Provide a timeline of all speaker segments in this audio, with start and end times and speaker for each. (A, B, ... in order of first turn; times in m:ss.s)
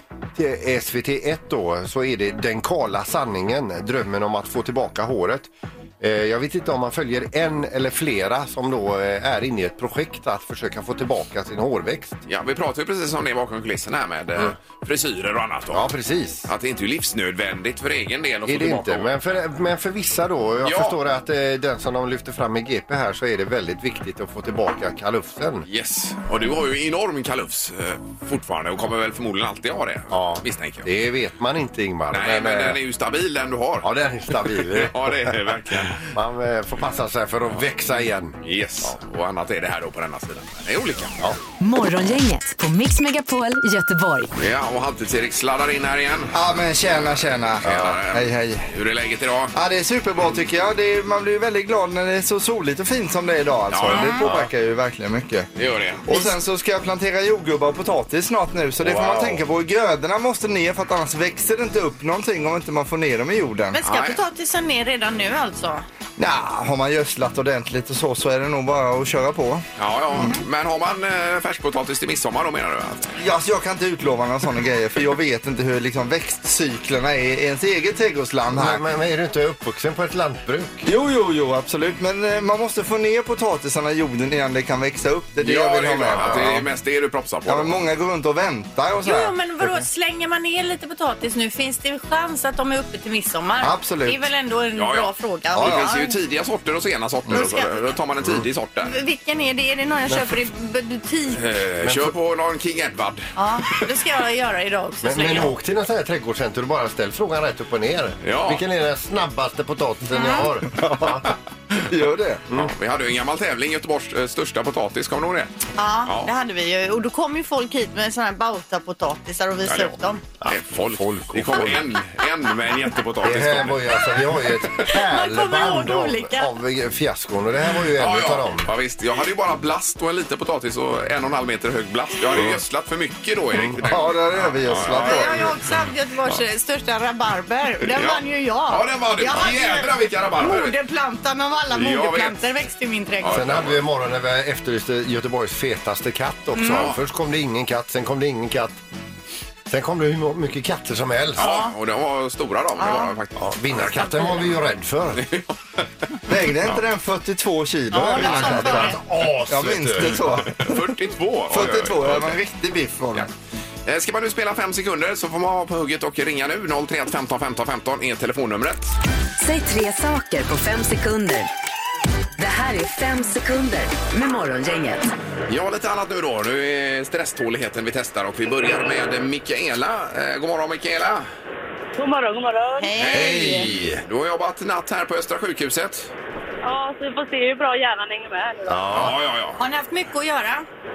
0:00.3-0:12.2 A
0:12.2-0:15.9 B
0:15.7-0:16.5 A
0:16.4-0:19.2 B
0:18.4-0:25.7 A
0:20.6-0:21.0 B
0:25.6-0:30.9 B
0:30.1-0:32.8 A
0:32.1-0:33.8 B
0:33.8-0:39.0 A
0:34.5-0:36.1 B
0:38.4-0:41.2 B
0:41.6-0:44.3 C
0:44.4-0:46.4 B
0:46.3-0:48.7 D
0:46.9-0:49.5 B
0:47.6-0:47.9 A
0:49.5-0:55.5 D
0:53.7-0:54.2 B
0:53.9-0:54.2 E
0:54.2-0:54.5 A
0:55.5-0:56.1 B
0:56.1-1:03.8 D
0:58.8-0:59.4 A
1:03.7-1:05.8 E
1:03.8-1:04.2 B
1:06.2-1:09.6 D
1:09.8-1:13.1 B
1:13.2-1:18.8 D
1:18.5-1:20.9 A
1:20.8-1:26.6 D
1:25.4-1:27.8 B
1:26.2-1:26.6 A
1:27.5-1:29.8 D
1:29.0-1:36.2 E
1:33.6-1:34.2 D
1:34.7-1:39.0 B
1:35.6-1:35.9 D
1:37.3-1:37.9 E
1:38.8-1:41.4 E
1:40.1-1:40.3 A
1:41.3-1:43.8 B
1:41.8-1:42.1 A
1:43.4-1:45.5 E
1:45.0-1:51.3 A
1:48.2-1:48.6 B
1:50.1-1:50.5 E
1:51.8-1:52.4 D
1:52.5-1:56.3 B
1:55.8-2:00.2 E
1:59.6-2:03.8 B
2:00.4-2:01.8 A
2:03.2-2:08.7 A
2:04.9-2:06.5 E
2:07.9-2:15.6 B
2:13.8-2:15.5 D
2:14.9-2:23.4 E
2:17.8-2:20.7 B
2:21.7-2:22.4 B
2:23.2-2:23.8 B
2:23.3-2:28.8 A
2:26.6-2:26.9 E
2:26.6-2:27.0 B
2:29.7-2:31.5 A
2:31.4-2:34.4 B
2:31.4-2:31.7 E
2:32.8-2:33.2 E
2:33.4-2:35.2 A
2:35.2-2:35.9 B
2:36.3-2:40.9 D
2:37.9-2:39.0 E
2:38.2-2:40.3 A
2:40.6-2:42.4 B
2:41.5-2:43.3 D
2:43.8-2:48.9 B
2:49.4-2:51.5 C
2:52.4-2:55.1 C
2:55.5-3:01.3 B
3:02.0-3:03.4 F
3:02.8-3:03.6 E
3:03.0-3:06.1 B
3:03.2-3:04.0 A
3:06.6-3:08.9 F
3:08.7-3:09.2 A
3:08.9-3:09.6 B
3:09.6-3:10.6 E